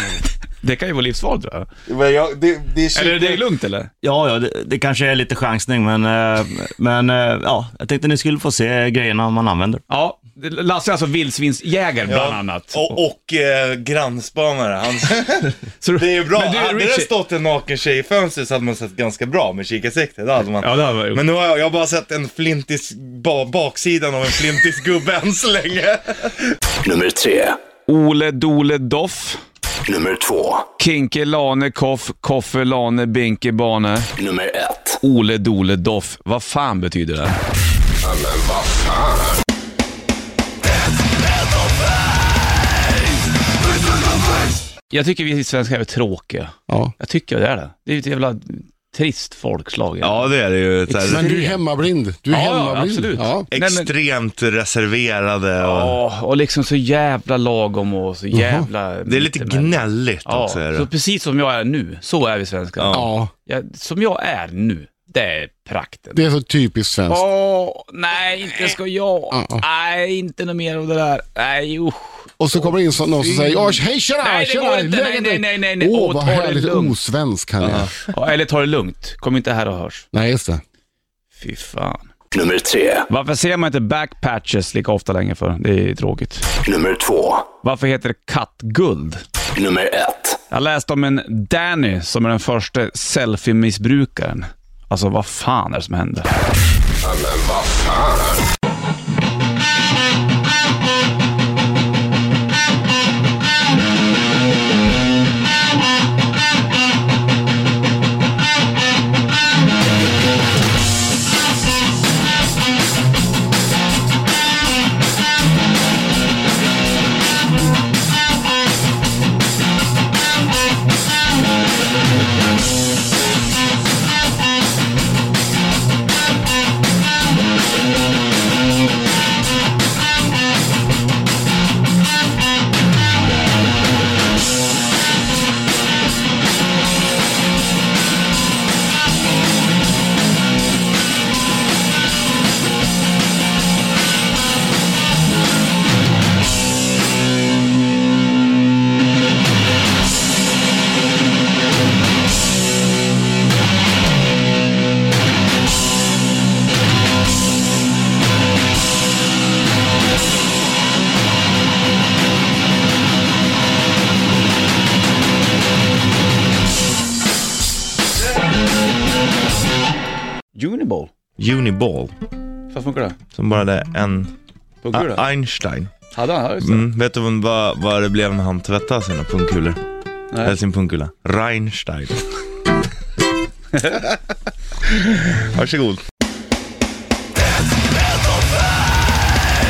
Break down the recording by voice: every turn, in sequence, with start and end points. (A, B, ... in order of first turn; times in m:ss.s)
0:00.6-0:01.7 A
0:01.9-0:03.4 B
0:02.9-0:03.9 A
0:04.0-0:09.8 C
0:09.9-0:13.0 A
0:12.1-0:26.6 B
0:15.8-0:17.1 A
0:20.6-0:21.2 A
0:26.8-0:27.6 D
0:27.9-0:29.4 A
0:29.9-0:30.6 D
0:30.8-0:34.1 A
0:34.2-0:34.9 D
0:35.0-0:37.4 A
0:44.9-0:50.3 A
0:50.0-0:51.3 B
0:50.9-0:51.6 A
0:51.0-0:53.5 E
0:52.3-0:53.9 A
0:53.5-0:56.0 B
0:55.6-1:06.3 A
0:58.3-0:58.7 E
0:59.1-1:00.9 B
1:02.8-1:03.1 B
1:02.9-1:03.3 E
1:06.1-1:07.3 E
1:07.1-1:17.0 A
1:09.3-1:09.6 E
1:12.4-1:17.9 E
1:17.6-1:20.1 A
1:20.1-1:20.6 E
1:21.4-1:22.1 A
1:22.3-1:23.0 D
1:23.1-1:26.5 A
1:26.7-1:27.5 D
1:27.6-1:29.2 A
1:29.6-1:30.4 D
1:30.5-1:36.3 A
2:50.5-2:51.1 A
2:51.4-2:52.1 B
2:52.7-2:53.2 A
2:53.3-2:54.3 B
2:54.8-2:55.2 A
2:54.9-2:55.9 B
2:56.1-2:56.9 A
2:56.6-2:59.8 B
3:00.3-3:00.6 A
3:00.4-3:02.2 B
3:05.0-3:06.0 B